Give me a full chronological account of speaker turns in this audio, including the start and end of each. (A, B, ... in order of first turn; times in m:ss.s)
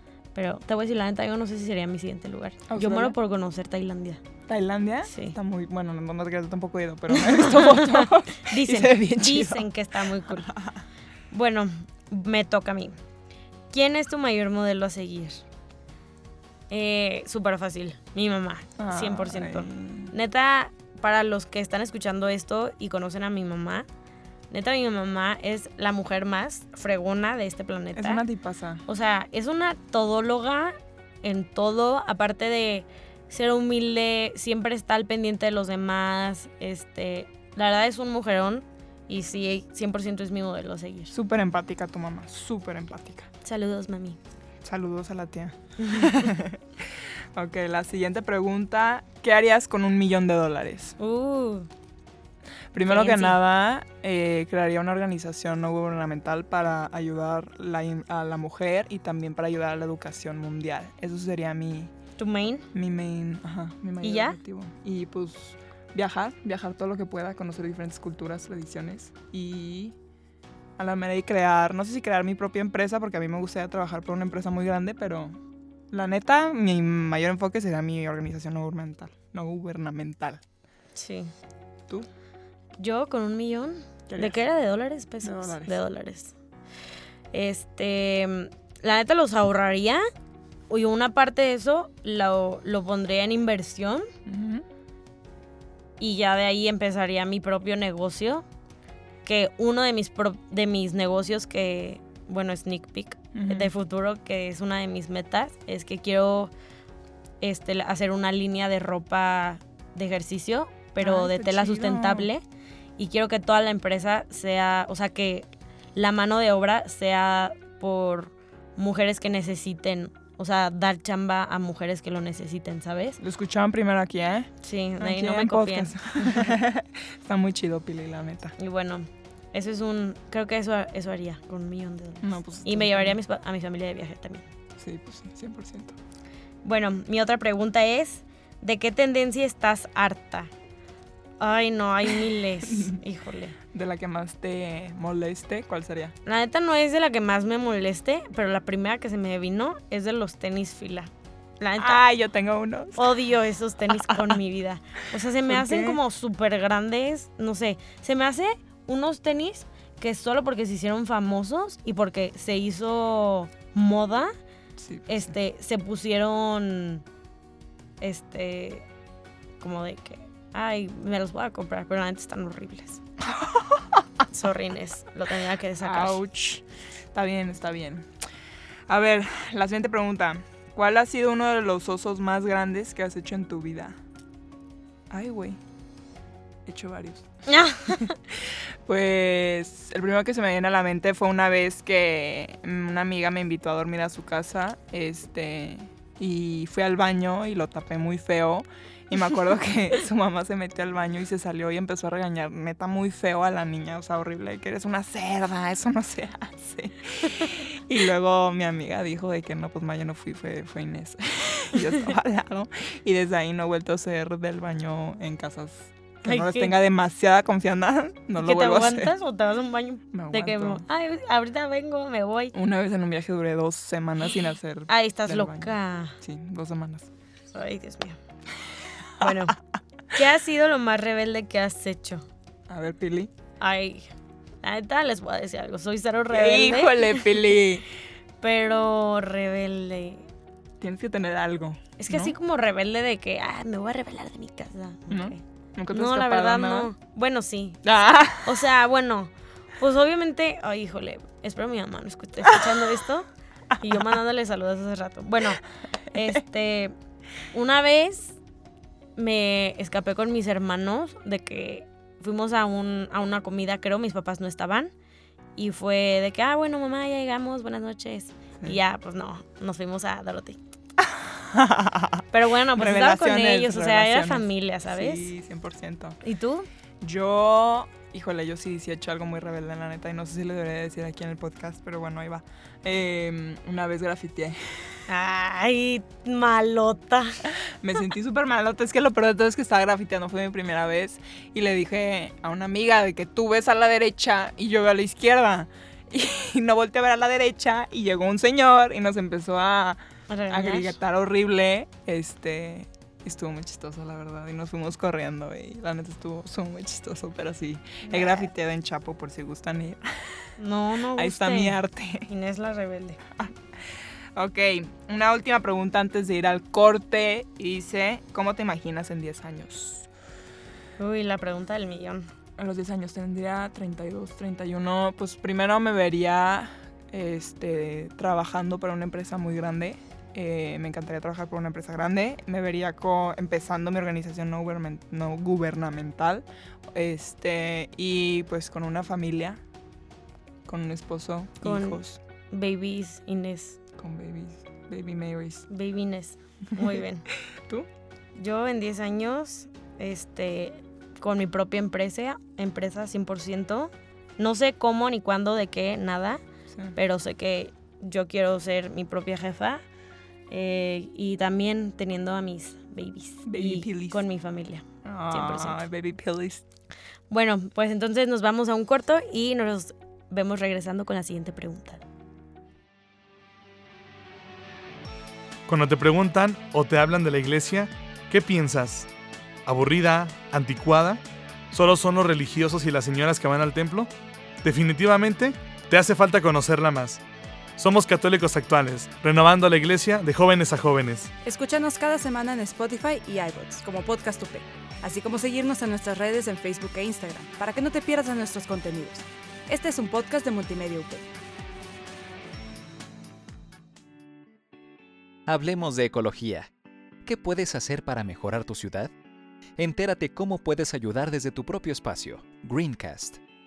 0:00.3-0:04.2 A
0:02.7-0:03.2 B
0:04.5-0:09.7 B
0:05.1-0:05.4 A
0:07.1-0:10.5 A
0:10.2-0:10.8 B
0:11.3-0:13.0 A
0:13.7-0:15.4 A
0:16.7-0:23.9 A
0:18.8-0:20.1 B
0:24.5-0:28.2 A
0:27.9-0:28.8 B
0:28.8-0:41.1 A
0:41.1-0:43.3 B
0:43.4-0:44.2 A
0:44.6-0:51.0 B
0:45.8-0:46.3 A
0:51.0-0:51.7 A
0:52.7-1:01.9 B
0:52.8-0:53.4 A
1:02.2-1:02.6 A
1:02.7-1:10.0 B
1:04.0-1:04.4 A
1:10.8-1:15.4 B
1:15.9-1:20.4 B
1:20.9-1:21.3 A
1:22.8-1:26.3 A
1:24.1-1:24.4 B
1:25.2-1:25.8 B
1:27.3-1:30.0 A
1:30.7-1:34.1 A
1:34.2-1:34.6 B
1:36.0-1:38.4 A
1:39.2-1:46.5 A
1:43.3-1:43.7 B
1:47.4-1:52.4 A
1:51.0-1:52.3 B
1:53.0-2:03.2 A
2:03.2-2:08.5 B
2:04.6-2:06.6 A
2:08.6-2:14.5 A
2:12.2-2:13.2 B
2:14.8-2:16.0 B
2:16.6-2:20.5 A
2:21.4-2:23.6 A
2:22.6-2:23.0 B
2:23.7-2:26.2 B
2:26.2-2:32.0 A
2:31.8-2:33.1 B
2:33.0-2:44.3 A
2:34.1-2:34.3 B
2:35.5-2:36.0 B
2:44.8-2:45.3 B
2:45.1-2:47.0 A
2:48.0-2:48.8 A
2:49.6-2:53.0 A
2:53.2-2:54.0 B
2:54.3-2:56.2 A
2:55.8-2:58.1 B
2:58.9-3:04.0 B
3:05.1-3:05.6 B
3:06.6-3:39.1 B
3:07.5-3:08.1 A
3:36.2-3:36.7 A
3:38.4-3:42.5 A
3:40.1-3:40.8 B
3:42.5-3:47.1 B
3:44.9-3:46.2 A
3:47.5-3:48.2 A
3:49.2-3:49.5 B
3:49.2-3:49.6 A
3:50.1-3:52.2 A
3:52.7-3:53.3 B
3:53.6-3:54.1 A
3:54.6-3:57.5 A
3:56.3-3:57.8 B
3:58.4-4:00.3 A
4:00.8-4:02.4 B
4:02.0-4:13.3 A
4:05.1-4:06.9 B
4:07.8-4:08.6 B
4:13.8-4:16.9 A
4:17.5-4:18.4 A
4:19.2-4:24.9 A
4:25.6-4:30.6 A
4:31.0-4:32.2 B
4:32.3-4:35.3 A
4:32.7-4:36.2 B
4:36.2-4:36.7 A
4:37.0-4:45.0 B
4:45.1-4:47.4 A
4:47.6-5:10.5 B
5:00.3-5:01.0 A
5:08.0-5:08.5 A
5:10.6-5:13.2 A
5:11.1-5:12.3 B
5:13.4-5:20.1 B
5:21.0-5:22.3 A
5:22.6-5:39.6 B
5:40.6-5:42.2 B
5:41.6-5:43.8 A
5:44.0-5:45.7 B
5:45.7-5:47.2 A
5:46.8-5:47.9 B
5:48.4-5:56.4 A
5:56.7-5:57.0 B
5:56.9-5:59.8 A
6:00.5-6:05.8 A
6:03.4-6:04.2 B
6:05.0-6:06.6 B
6:07.3-6:12.0 A
6:15.7-6:19.1 C
6:19.6-6:24.1 C
6:24.6-6:27.2 C
6:27.8-6:31.3 C
6:31.4-6:41.3 D
6:45.5-6:46.7 E
6:47.2-6:49.1 E
6:49.8-6:53.4 E